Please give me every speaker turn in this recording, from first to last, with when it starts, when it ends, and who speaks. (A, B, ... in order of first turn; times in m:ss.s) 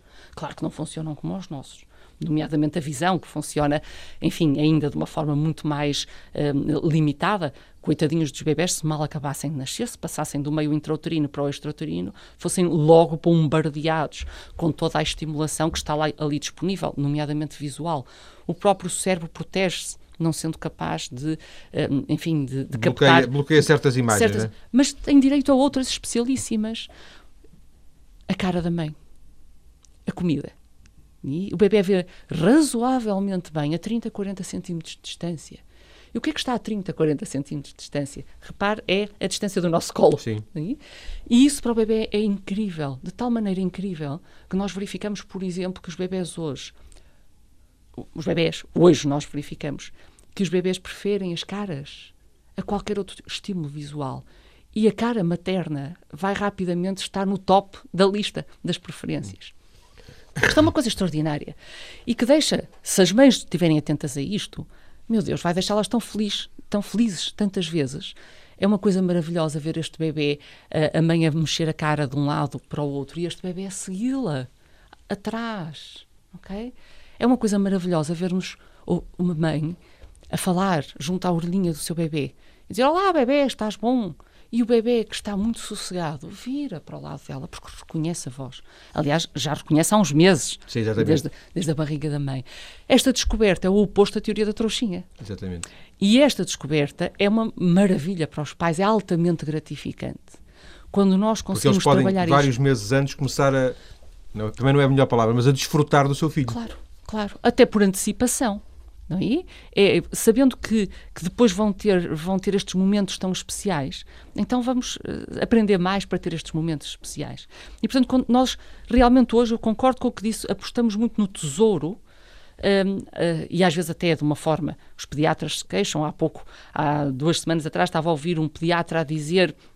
0:00.4-0:23.3 A
0:22.7-0:24.5 B
0:24.1-0:26.9 A
0:28.3-0:29.0 A
0:30.1-0:30.5 A
0:31.2-0:35.6 A
0:36.1-0:46.8 A
0:48.0-0:59.5 A
1:00.4-1:01.6 A
1:02.1-1:14.5 A
1:15.1-1:19.8 A
1:20.3-1:35.1 A
1:30.7-1:31.2 B
1:35.2-1:35.7 B
1:36.0-1:40.4 A
1:40.9-1:42.5 A
1:41.5-1:43.8 B
1:44.3-1:46.6 B
1:46.5-2:02.0 A
2:02.6-2:09.6 A